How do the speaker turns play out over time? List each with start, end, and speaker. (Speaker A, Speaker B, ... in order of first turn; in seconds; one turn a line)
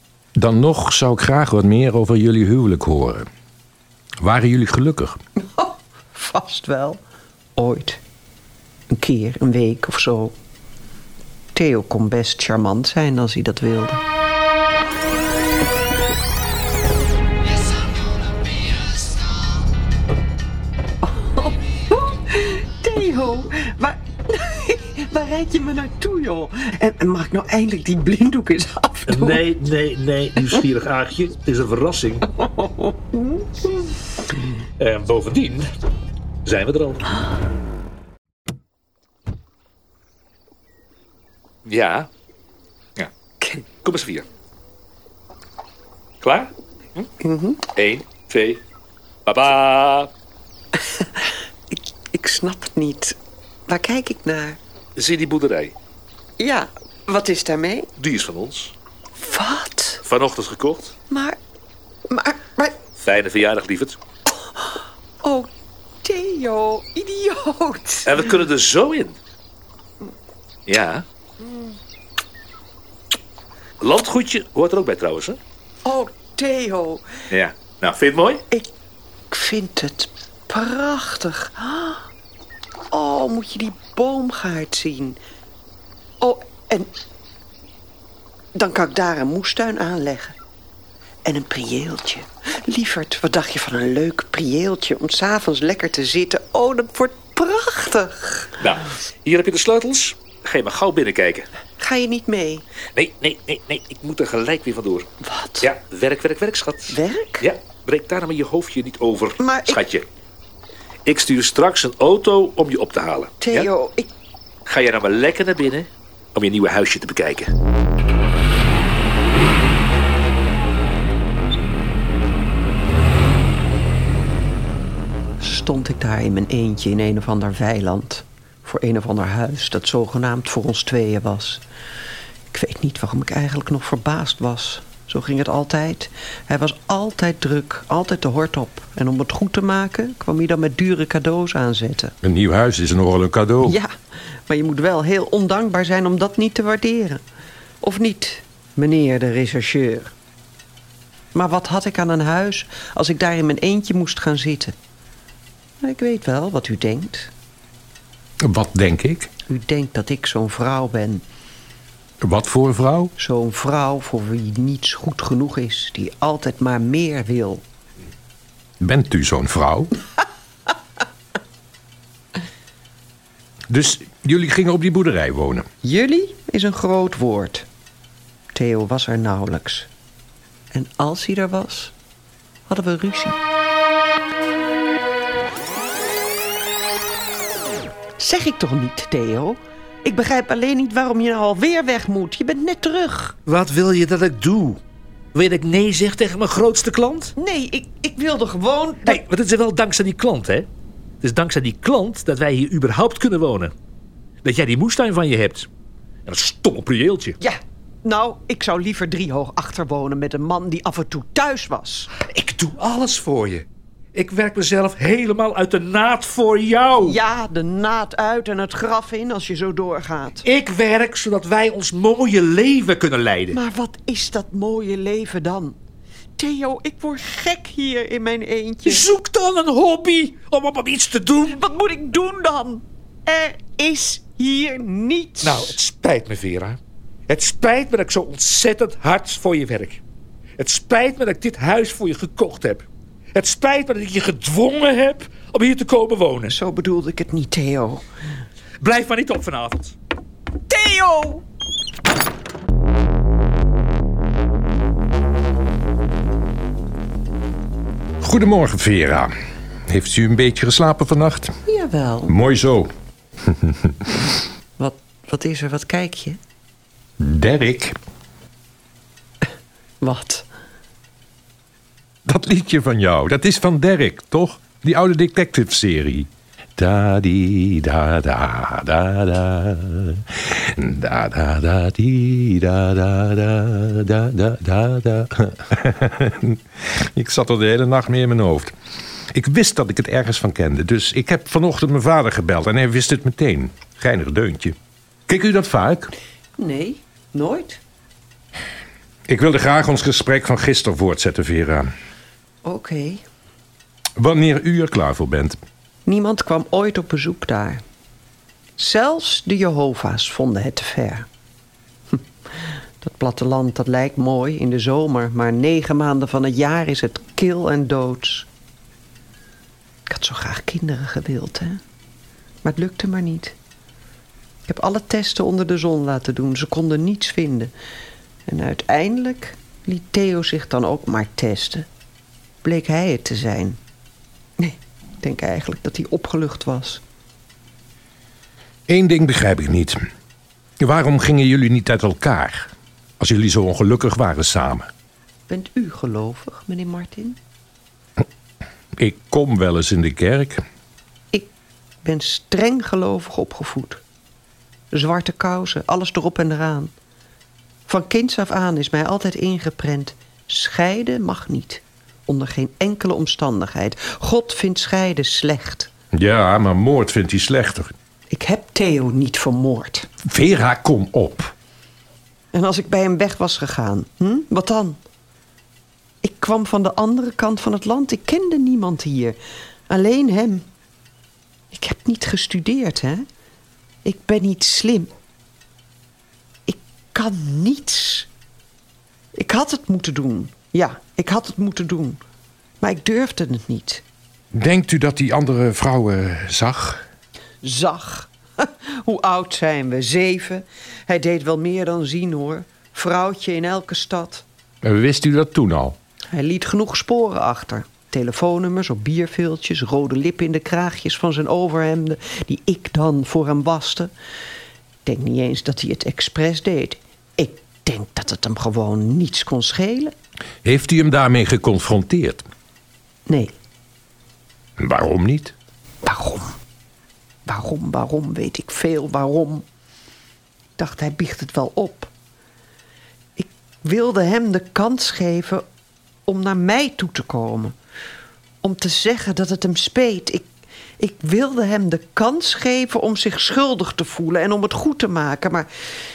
Speaker A: 0.3-3.3
Speaker A: 4.2-5.2
Speaker B: 5.4-7.0
Speaker B: 7.6-8.0
Speaker B: 8.9-10.3
Speaker B: 11.5-14.0
Speaker B: 21.0-29.4
Speaker C: 29.1-32.3
Speaker B: 30.4-30.6
Speaker B: 32.4-33.7
Speaker C: 34.8-35.7
Speaker C: 36.4-37.0
Speaker C: 41.6-42.1
Speaker B: 43.4-43.6
Speaker C: 43.8-44.2
Speaker C: 46.2-47.1
Speaker B: 47.2-47.6
Speaker C: 47.7-48.6
Speaker C: 49.2-50.1
Speaker B: 50.9-53.1
Speaker B: 53.7-54.6
Speaker C: 55.0-55.7
Speaker B: 56.4-57.9
Speaker C: 58.0-58.7
Speaker B: 59.2-60.0
Speaker C: 60.0-60.9
Speaker B: 61.1-61.4
Speaker B: 62.1-62.8
Speaker C: 63.0-64.0
Speaker B: 65.2-65.5
Speaker B: 66.0-68.2
Speaker C: 68.0-69.2
Speaker C: 70.7-71.0
Speaker B: 71.4-71.8
Speaker C: 73.8-75.4
Speaker B: 75.8-77.1
Speaker C: 77.3-78.4
Speaker B: 79.3-82.1
Speaker B: 82.9-85.2
Speaker B: 86.2-86.9
Speaker B: 88.5-90.3
Speaker B: 91.2-98.5
Speaker C: 98.6-101.5
Speaker B: 101.8-102.6
Speaker C: 102.9-105.1
Speaker B: 105.2-105.7
Speaker C: 105.6-110.0
Speaker B: 106.9-107.5
Speaker B: 109.4-109.8
Speaker C: 111.0-113.7
Speaker B: 113.4-114.1
Speaker C: 114.7-117.5
Speaker B: 125.4-131.6
Speaker B: 132.5-142.1
Speaker A: 142.2-143.7
Speaker B: 143.6-143.9
Speaker B: 144.5-147.2
Speaker B: 147.8-150.1
Speaker B: 151.3-154.8
Speaker B: 155.8-157.3
Speaker A: 158.5-159.3
Speaker B: 159.5-161.2
Speaker A: 162.2-163.1
Speaker B: 163.2-167.6
Speaker A: 168.8-169.9
Speaker A: 173.7-175.7
Speaker B: 175.8-177.6
Speaker B: 178.5-179.9
Speaker B: 180.7-181.9
Speaker B: 182.7-183.4
Speaker B: 188.2-193.3
Speaker C: 193.4-194.8
Speaker C: 195.3-197.3
Speaker B: 197.4-199.2
Speaker C: 199.0-200.7
Speaker C: 201.2-203.7
Speaker C: 204.4-205.7
Speaker C: 206.2-207.4
Speaker B: 207.4-212.1
Speaker C: 212.2-217.2
Speaker B: 217.0-220.4
Speaker C: 220.4-223.6
Speaker B: 223.5-225.8
Speaker B: 226.4-229.1
Speaker C: 228.8-231.6
Speaker B: 231.5-235.7
Speaker C: 235.4-236.8
Speaker C: 237.3-240.0
Speaker C: 240.6-246.6
Speaker B: 246.5-248.1
Speaker C: 248.8-249.9
Speaker B: 250.7-251.4
Speaker A: 258.2-259.3
Speaker A: 259.9-261.5
Speaker B: 261.7-262.3
Speaker A: 262.3-262.9
Speaker B: 264.8-266.4
Speaker A: 267.2-268.0
Speaker B: 270.0-270.5
Speaker A: 272.3-280.2
Speaker A: 280.7-286.6
Speaker A: 287.1-288.7
Speaker A: 289.3-294.7
Speaker A: 295.3-296.1
Speaker B: 296.6-297.8
Speaker A: 299.3-301.9
Speaker B: 302.6-303.2
Speaker A: 304.2-305.6
Speaker B: 306.1-307.8
Speaker B: 308.8-311.3
Speaker B: 313.0-318.5
Speaker B: 320.1-321.8
Speaker B: 322.6-323.6
Speaker B: 324.7-327.7
Speaker B: 328.4-331.9
Speaker B: 332.6-333.8
Speaker B: 334.6-337.0
Speaker A: 338.9-340.0
Speaker A: 340.8-344.9
Speaker B: 345.5-347.4
Speaker A: 349.0-350.6
Speaker B: 352.0-354.0
Speaker B: 354.9-356.9
Speaker B: 357.9-365.9
Speaker A: 366.1-367.9
Speaker B: 368.3-370.1
Speaker A: 370.3-371.5
Speaker B: 372.5-375.0
Speaker B: 376.2-379.4
Speaker B: 379.9-380.6
Speaker B: 381.7-383.2
Speaker B: 384.0-385.1
Speaker B: 386.7-388.3
Speaker B: 389.3-392.2
Speaker B: 392.8-394.0
Speaker A: 394.6-397.0
Speaker B: 397.6-404.4
Speaker A: 404.8-405.9
Speaker B: 406.3-414.1
Speaker B: 415.0-420.1
Speaker A: 420.6-422.5
Speaker B: 423.3-423.5
Speaker A: 424.8-425.5
Speaker B: 426.0-426.5
Speaker B: 427.4-429.6
Speaker B: 430.8-432.1
Speaker B: 433.4-435.6
Speaker B: 436.3-437.7
Speaker B: 438.6-440.5
Speaker B: 441.0-445.7